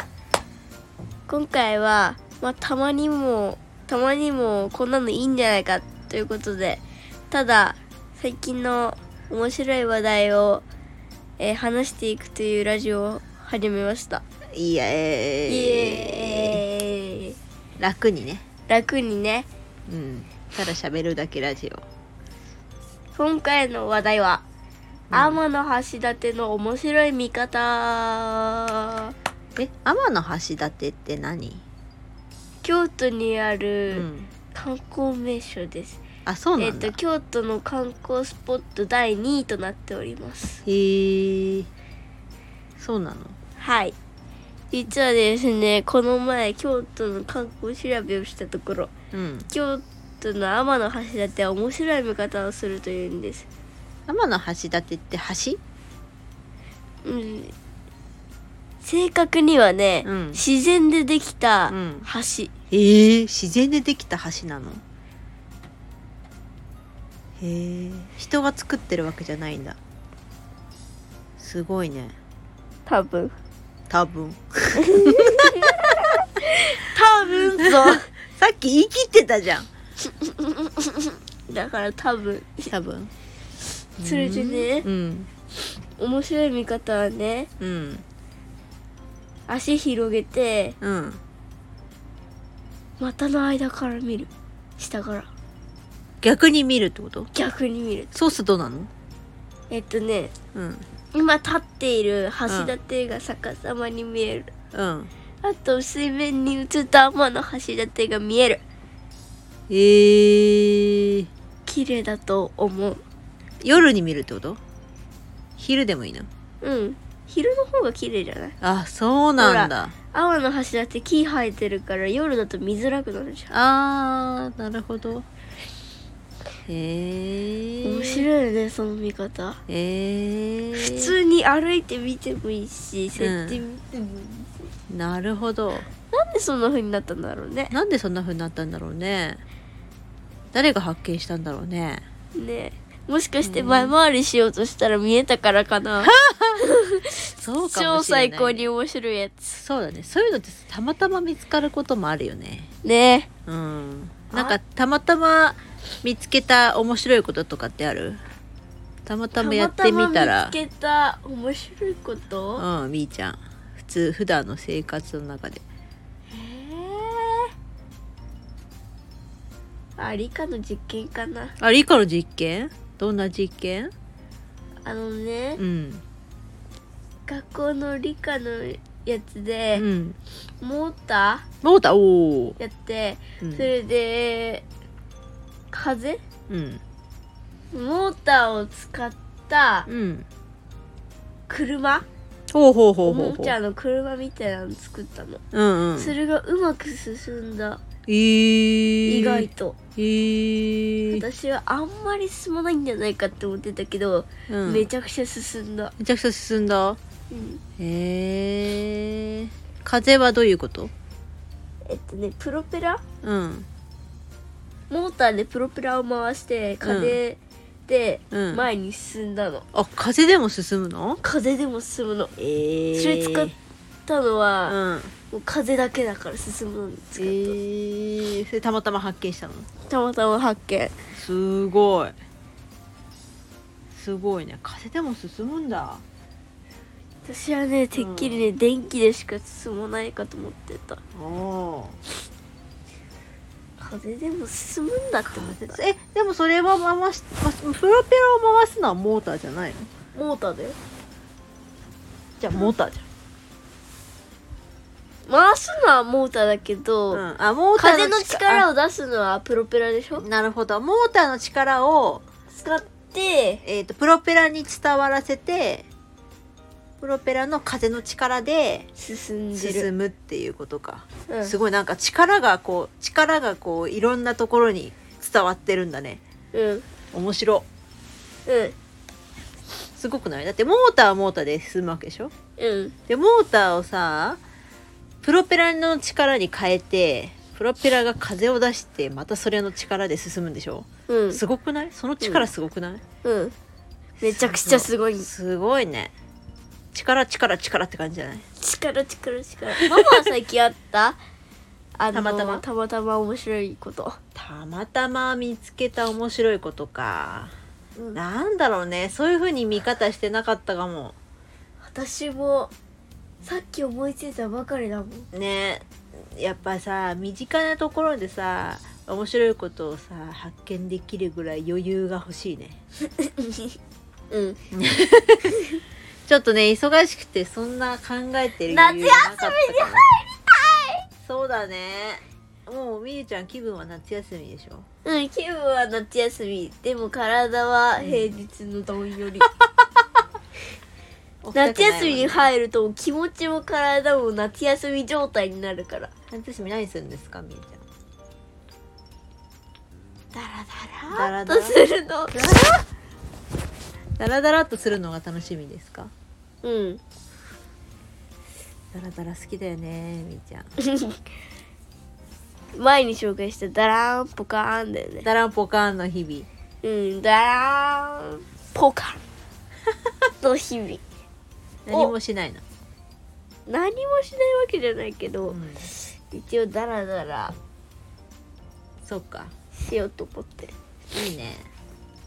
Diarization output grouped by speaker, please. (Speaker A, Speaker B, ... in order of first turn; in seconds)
Speaker A: 1.3-10.7, 11.4-14.2, 15.5-17.4, 18.7-19.5, 23.1-24.4, 25.1-29.1, 32.6-36.0, 36.6-40.6, 43.6-44.0, 44.7-48.9, 49.5-53.5, 57.0-57.5, 58.8-62.5, 72.9-73.3, 74.8-78.1, 80.1-82.7, 84.0-84.9, 86.0-87.5, 89.5-90.8, 93.0-95.3, 97.3-98.1, 99.7-100.3, 101.1-104.5, 105.4-108.6, 111.7-113.0, 116.6-118.5, 119.4-123.5, 127.8-129.6, 130.8-134.5, 136.1-137.7, 142.4-149.6, 152.8-153.3, 154.3-154.6, 159.4-162.7, 166.3-167.5, 170.0-171.5, 174.8-175.6, 177.3-179.8, 180.6-181.4, 182.6-184.7, 185.7-186.2, 187.7-189.9, 191.5-192.1, 193.1-195.4, 196.0-197.8, 199.1-199.8, 201.1-205.9, 207.3-207.6, 211.8-213.0, 214.9-219.7, 221.2-222.3, 222.9-223.5, 224.1-224.8, 225.3-227.6, 229.9-230.9, 237.2-241.0, 243.8-245.8, 250.2-250.8, 255.3-257.2, 257.8-260.2, 262.5-263.6, 269.0-269.9, 271.3-271.6, 276.5-276.9, 278.5-278.8, 282.6-282.9, 291.1-291.4, 292.2-292.5, 293.2-293.5, 294.2-295.3, 298.6-301.2, 302.0-304.2, 311.8-312.7, 313.4-315.3, 323.2-323.8, 324.3-324.6, 328.7-331.0, 335.1-339.5, 341.6-346.1, 350.3-352.5, 356.6-357.0, 360.9-361.2, 362.7-365.3, 366.8-369.2, 370.4-371.0, 373.7-377.6, 379.8-380.7
Speaker B: 14.5-16.6, 17.8-18.4, 19.9-21.8, 25.1-25.4, 29.6-31.6, 33.9-34.3, 36.3-37.0, 40.7-41.7, 42.8-43.4, 49.1-49.5, 54.1-55.6, 60.0-60.4, 61.7-62.1, 62.7-64.8, 67.4-69.8, 71.4-72.2, 73.9-76.0, 77.3-79.7, 82.7-83.1, 84.0-85.3, 87.6-88.0, 90.8-91.2, 96.2-97.3, 98.1-98.9, 100.5-100.9, 102.5-102.8, 104.7-105.1, 109.7-111.3, 113.6-114.6, 115.6-116.3, 118.6-120.0, 123.5-125.3, 126.7-128.3, 129.7-131.2, 133.2-133.6, 134.9-135.9, 137.7-139.4, 140.5-142.0, 143.4-143.9, 146.0-146.7, 147.3-148.6, 149.5-152.7, 153.5-158.2, 159.1-160.6, 162.6-165.6, 171.6-173.9, 175.6-176.0, 179.7-180.2, 181.6-182.6, 183.4-183.7, 186.5-186.8, 189.9-190.3, 192.5-193.6, 195.5-196.2, 198.1-201.2, 204.5-204.9, 206.0-207.0, 207.8-210.9, 213.2-213.7, 216.8-217.2, 218.3-218.7, 219.7-221.2, 222.4-223.6, 224.7-225.1, 227.2-229.7, 231.1-232.2, 233.9-236.0, 237.9-238.5, 241.1-242.0, 245.3-249.9, 252.4-253.1, 257.1-258.7, 260.2-262.2, 263.6-265.9, 267.0-268.9, 269.6-276.2, 277.1-277.7, 279.9-282.3, 283.1-284.4, 285.2-293.0, 294.2-296.1, 296.9-298.4, 299.8-300.2, 302.1-302.6, 304.4-307.6, 308.1-311.2, 315.3-322.8, 324.7-325.7, 326.3-330.1, 331.2-334.9, 338.0-338.3, 341.4-342.5, 346.3-347.8, 351.1-351.8, 352.3-352.8, 354.2-356.1, 358.9-360.7, 365.2-366.5, 371.9-372.6, 375.5-375.9, 379.0-379.5, 381.1-381.7